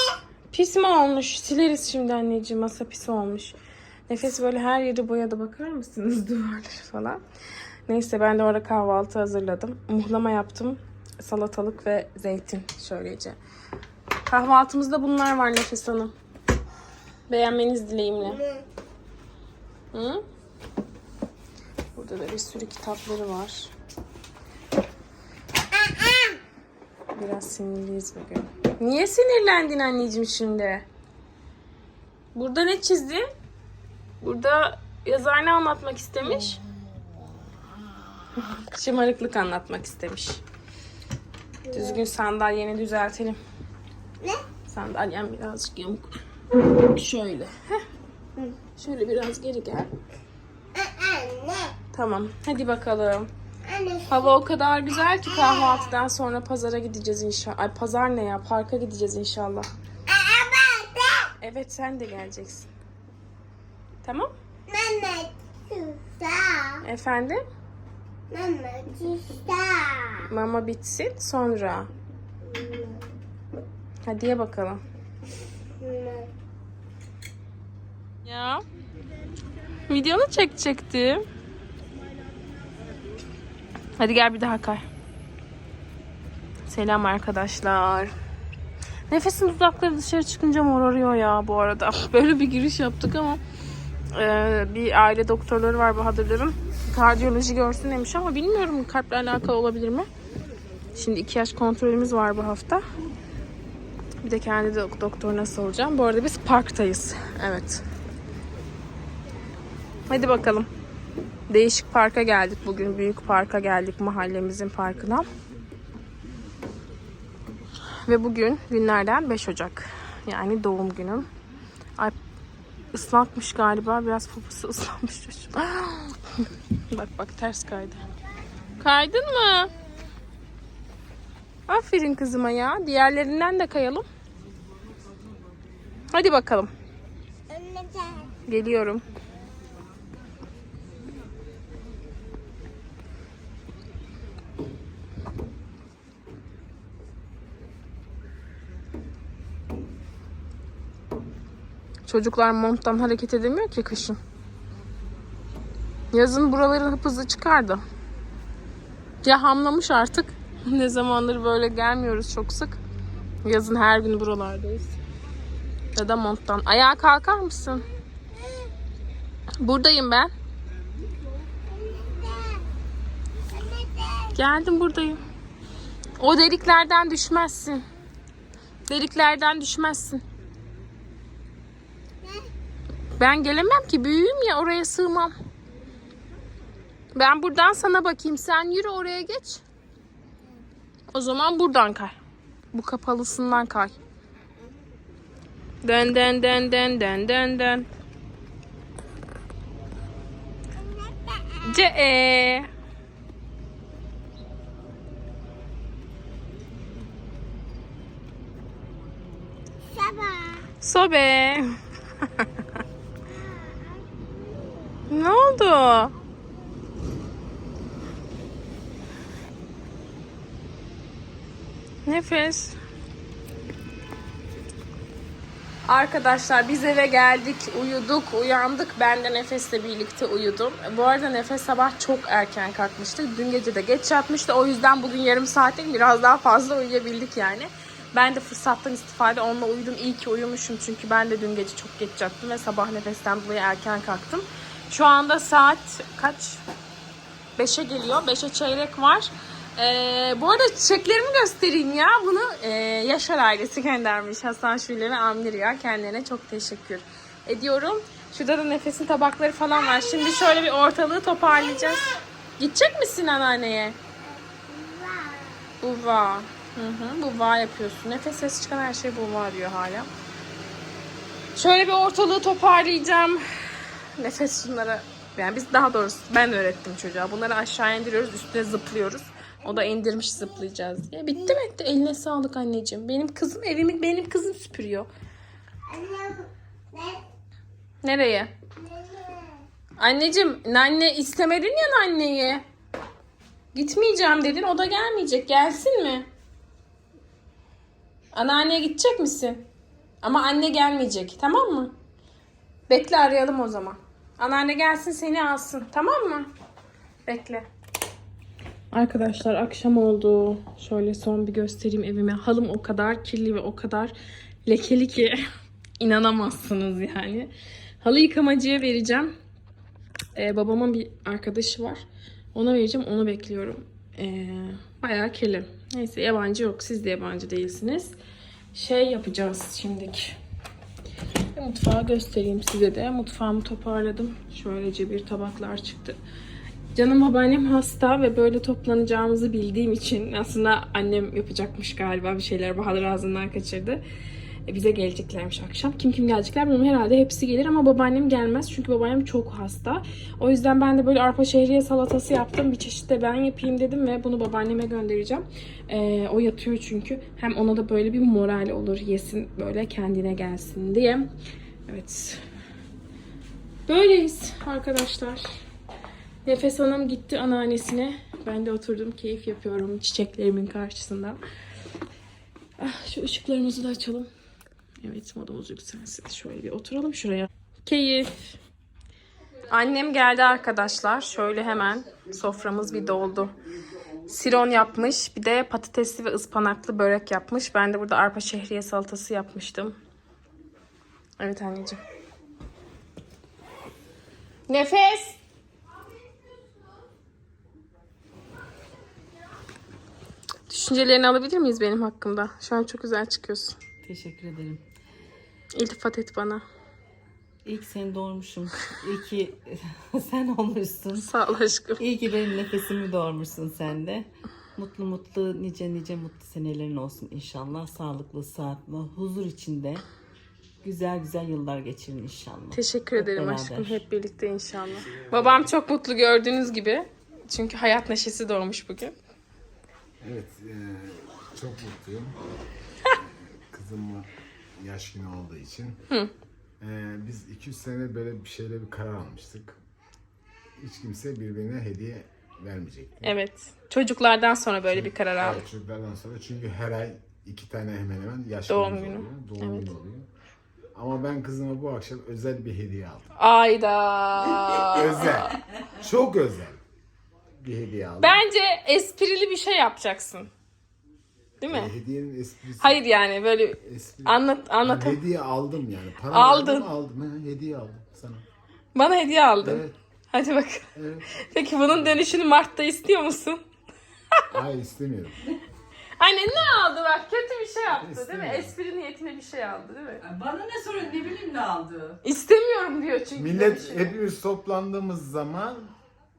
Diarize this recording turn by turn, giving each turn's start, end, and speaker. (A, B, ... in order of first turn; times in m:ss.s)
0:00.5-0:03.6 A
0:04.1-0:07.2 A
0:07.9-0:13.4 A
0:14.3-0:16.1 A
0:17.3-0:18.4 A
0:19.9-0:20.2 A
0:21.9-0:23.7 A
0:27.1-0:30.8 A
0:32.3-0:33.2 A
0:34.2-0:36.6 A
0:38.4-0:40.4 A
0:41.7-0:43.4 A
0:44.6-0:47.8 A
0:48.7-0:49.9 A
0:51.9-0:53.3 A
0:54.0-0:59.7 A
1:00.3-1:00.9 B
1:01.4-1:02.7 A
1:04.0-1:04.3 A
1:04.7-1:06.5 B
1:06.8-1:07.4 A
1:08.3-1:10.0 B
1:10.2-1:11.9 A
1:14.0-1:14.8 A
1:15.9-1:16.2 B
1:18.2-1:18.6 A
1:19.9-1:21.2 A
1:24.0-1:24.8 A
1:26.7-1:28.1 A
1:29.1-1:33.4 A
1:34.1-1:40.1 A
1:40.9-1:42.8 A
1:44.2-1:47.8 A
1:50.1-1:50.7 A
1:51.5-1:55.3 A
1:58.0-2:01.3 A
2:02.9-2:06.2 A
2:06.9-2:08.0 A
2:08.8-2:09.7 A
2:11.7-2:14.0 A
2:16.1-2:16.7 A
2:18.4-2:19.0 A
2:32.0-2:34.2 A
2:36.1-2:37.8 A
2:39.2-2:42.8 A
2:43.4-2:45.0 A
2:45.9-2:47.8 A
2:49.6-2:50.3 A
2:54.3-2:55.2 A
2:56.2-2:57.8 A
2:58.9-3:00.2 A
3:03.2-3:05.3 A
3:07.1-3:09.6 A
3:11.1-3:12.2 A
3:12.7-3:14.0 A
3:15.8-3:17.9 A
3:21.6-3:22.7 A
3:30.1-3:30.5 B
3:30.8-3:31.7 A
3:35.1-3:36.1 A
3:42.0-3:42.8 A
3:45.9-4:06.6 A
4:07.6-4:24.0 A
4:24.9-4:25.3 B
4:25.8-4:30.1 A
4:31.6-4:33.4 A
4:34.2-4:45.1 A
4:48.0-4:48.5 A
4:50.0-4:52.6 A
4:53.7-4:56.3 A
4:58.3-4:59.6 A
5:00.2-5:01.9 A
5:02.9-5:06.5 A
5:07.2-5:07.6 A
5:08.9-5:14.1 A
5:14.6-5:15.4 A
5:16.0-5:17.5 A
5:18.0-5:19.3 A
5:20.3-5:28.2 A
5:28.7-5:30.4 A
5:31.5-5:36.2 A
5:36.9-5:44.0 A
5:44.7-6:01.3 A
6:01.9-6:02.4 A
6:03.9-6:05.4 A
6:06.4-6:11.4 A
6:12.8-6:14.3 A
6:15.0-6:18.5 A
6:19.7-6:23.5 A
6:24.2-6:30.0 A
6:31.4-6:32.0 A
6:34.7-6:35.4 A
6:40.7-6:43.8 A
6:44.0-6:44.8 B
6:45.7-6:46.6 A
6:47.6-6:51.3 B
6:51.2-6:52.0 A
6:52.0-7:00.0 B
7:00.8-7:04.0 B
7:02.7-7:09.1 A
7:10.2-7:12.3 C
7:13.7-7:14.3 C
7:14.8-7:15.9 C
7:16.8-7:19.8 C
7:20.8-7:23.3 C
7:23.2-7:25.6 A
7:24.9-7:30.3 C
7:28.7-7:29.9 A
7:30.9-7:33.2 C
7:33.4-7:35.6 A
7:34.8-7:36.8 C
7:37.6-7:38.4 C
7:38.2-7:40.5 A
7:41.6-7:41.9 A
7:41.7-7:43.0 C
7:42.8-7:45.2 A
7:43.8-7:48.4 C
7:46.3-7:46.9 A
7:48.9-7:50.8 A
7:49.6-7:49.9 C
7:50.9-7:51.3 C
7:51.4-7:53.6 A
7:54.5-7:55.4 C
7:56.2-8:00.2 A
7:57.9-7:58.7 C
8:00.2-8:02.2 D
8:02.2-8:04.2 A
8:03.4-8:05.9 C